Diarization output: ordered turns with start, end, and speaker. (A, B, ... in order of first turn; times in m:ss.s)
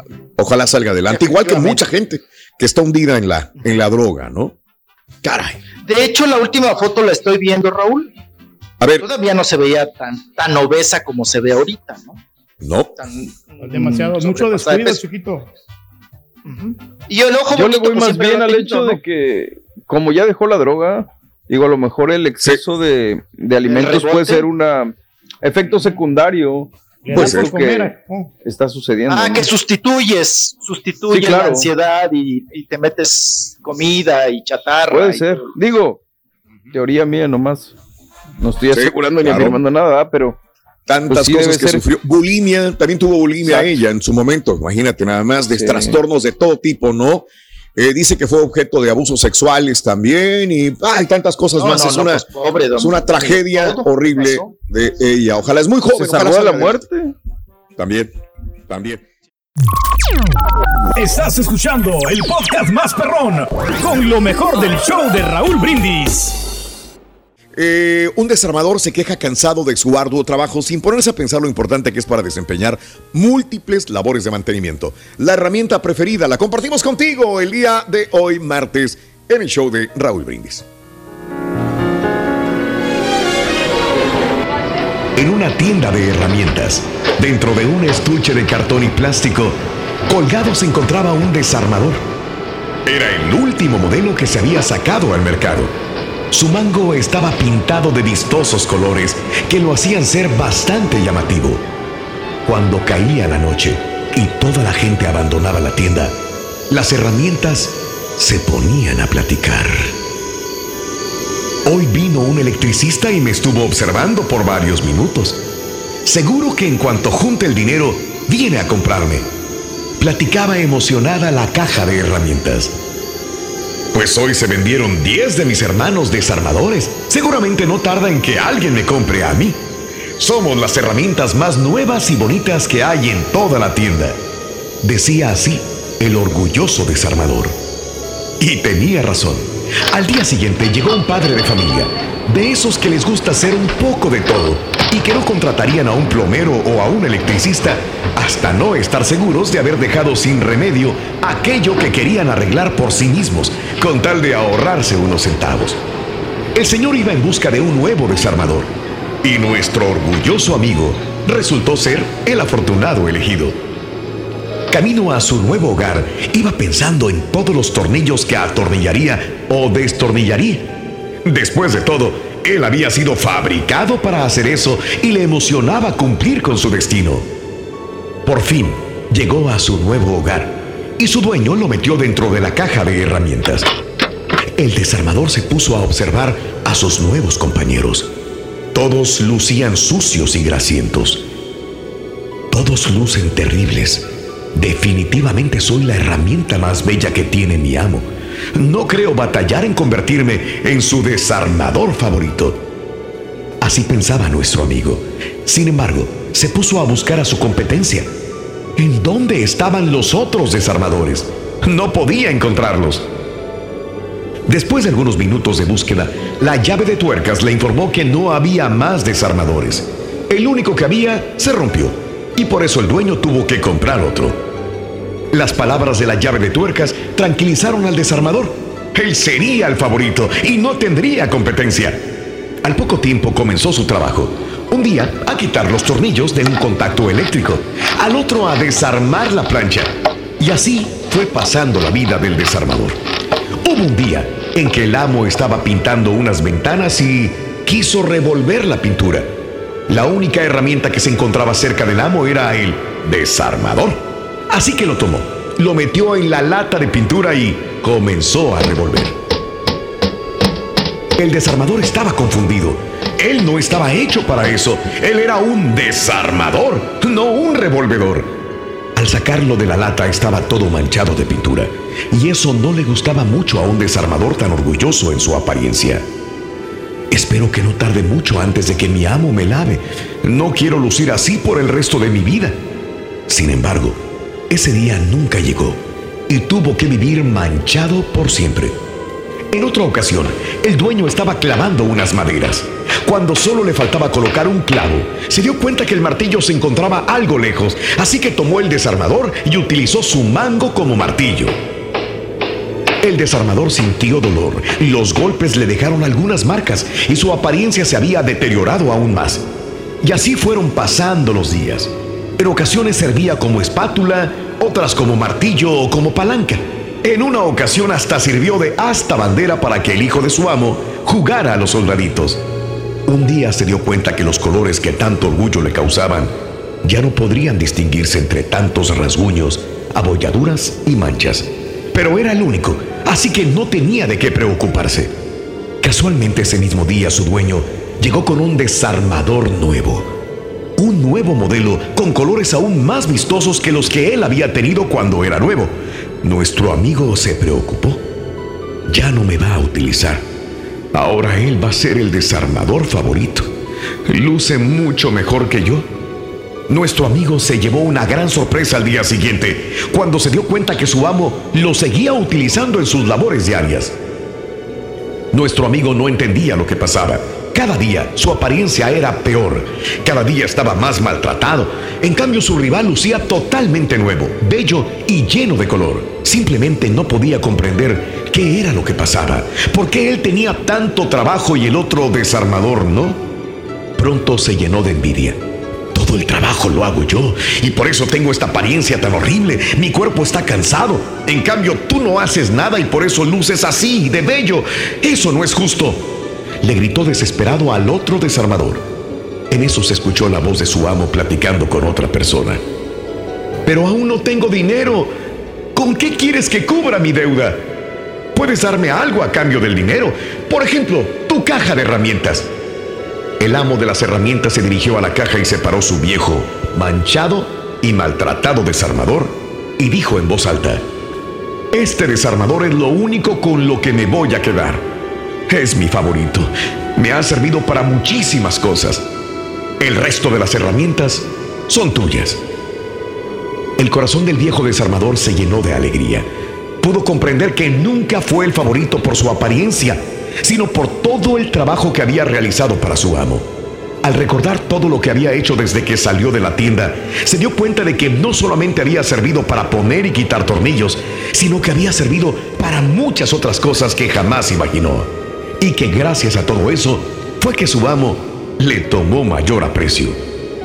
0:00.4-0:04.5 A
0:01.1-0:01.9 B
0:05.2-0:05.5 C
0:05.8-0:08.1 B
0:09.0-0:12.2 B
0:13.0-0:15.0 B
0:13.6-0:15.5 D
0:16.4-0:19.0 B
0:17.5-0:29.5 E
0:23.6-0:24.5 B
0:27.0-0:28.3 D
0:27.1-0:27.5 A
0:29.1-0:35.4 B
0:31.1-0:31.7 E
0:34.9-0:36.0 E
0:36.7-0:37.7 E
0:38.4-0:40.4 E
0:38.7-0:39.6 A
0:40.9-0:47.2 A
0:41.1-0:41.9 E
0:43.4-0:43.7 B
0:45.5-0:46.0 E
0:47.8-0:52.2 A
0:51.6-0:54.6 B
0:52.8-0:56.8 A
0:55.9-0:57.1 E
0:57.8-0:58.1 A
0:58.7-0:59.0 A
1:01.0-1:06.4 F
1:07.6-1:20.6 A
1:08.7-1:09.5 C
1:10.1-1:10.6 C
1:11.3-1:12.3 C
1:13.4-1:15.8 C
1:25.2-1:32.0 C
1:32.8-1:35.7 C
1:36.3-1:41.6 C
1:42.4-1:46.2 C
1:46.7-1:50.0 C
1:51.6-1:55.4 C
1:56.0-1:59.3 C
2:00.0-2:02.7 C
2:03.9-2:09.6 C
2:10.2-2:14.2 C
2:14.8-2:17.6 C
2:18.4-2:35.8 C
2:36.5-2:43.6 C
2:44.7-2:57.3 C
2:58.2-3:03.7 C
3:04.6-3:08.1 C
3:08.7-3:11.2 C
3:12.5-3:22.6 C
3:23.6-3:28.1 C
3:28.8-3:33.1 C
3:34.4-3:44.4 C
3:45.3-3:52.0 C
3:52.6-4:03.0 C
4:03.6-4:09.3 C
4:09.9-4:19.2 C
4:21.1-4:28.3 C
4:29.0-4:36.0 C
4:37.1-4:42.6 C
4:43.3-4:48.8 C
4:49.5-5:01.6 C
5:03.0-5:09.4 C
5:10.0-5:22.4 C
5:23.0-5:35.1 C
5:35.8-5:40.1 C
5:40.8-5:48.0 C
5:48.9-5:50.2 C
5:50.9-5:53.5 C
5:54.0-5:55.9 C
5:56.7-6:03.9 C
6:05.3-6:23.2 C
6:24.0-6:25.4 C
6:25.9-6:38.8 C
6:39.5-6:42.6 C
6:43.6-6:45.1 C
6:45.7-6:47.6 C
6:48.3-6:52.5 C
6:53.4-7:00.8 C
7:01.7-7:04.9 C
7:05.5-7:09.0 C
7:09.8-7:12.4 C
7:13.8-7:16.3 C
7:16.8-7:23.4 C
7:24.0-7:40.2 C